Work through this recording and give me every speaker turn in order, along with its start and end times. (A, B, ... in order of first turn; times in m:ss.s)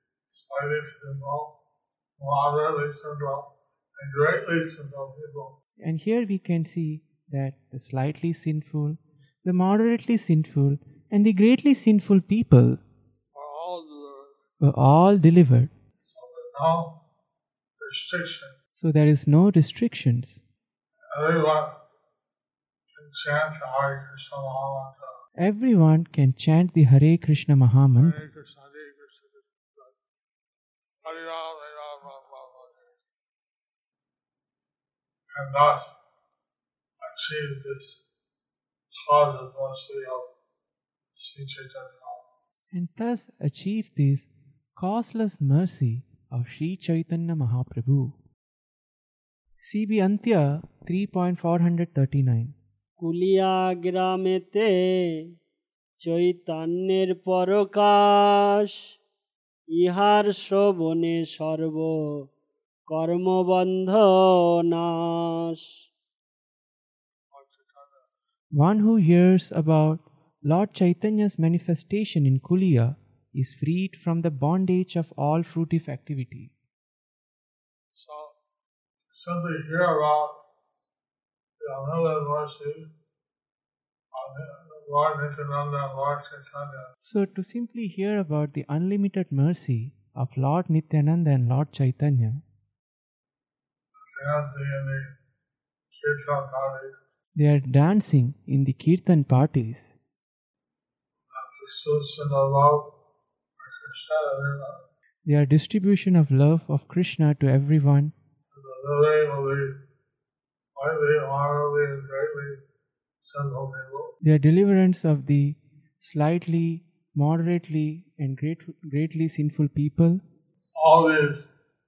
0:00.3-0:01.5 A
0:02.2-0:05.5 A
0:05.8-0:12.8 B
0:13.3-0:14.3 A
0:14.6-0:15.7 B
0:16.0-0:16.9 A
0:17.8-0:18.5 A
0:18.8-0:20.4 B
0:21.1-0:21.8 A
0:22.9-0:25.1 A
0:25.4-0:28.2 B
0:27.9-0:29.9 A
0:31.0-0:32.9 A
0:35.3-0:35.9 A
0:37.0-0:38.0 A
0:38.9-0:40.3 A
0:41.1-0:42.2 A
0:42.7-0:48.2 B
0:49.6-0:52.5 B
0:53.0-0:54.7 C
0:56.0-0:58.7 C
0:59.8-1:02.0 C
1:02.9-1:05.6 C
1:07.3-1:08.1 A
1:08.5-1:16.5 B
1:17.9-1:18.3 A
1:19.1-1:20.4 A
1:21.6-1:22.9 A
1:24.1-1:26.9 A
1:27.0-1:32.4 B
1:34.0-1:35.1 A
1:35.9-1:37.0 A
1:37.4-1:40.0 B
1:41.3-1:42.9 A
1:43.6-1:44.8 A
1:45.2-1:48.1 B
1:48.5-1:49.7 A
1:50.7-1:52.6 A
1:53.2-1:54.1 A
1:54.2-2:00.2 B
2:00.8-2:01.5 A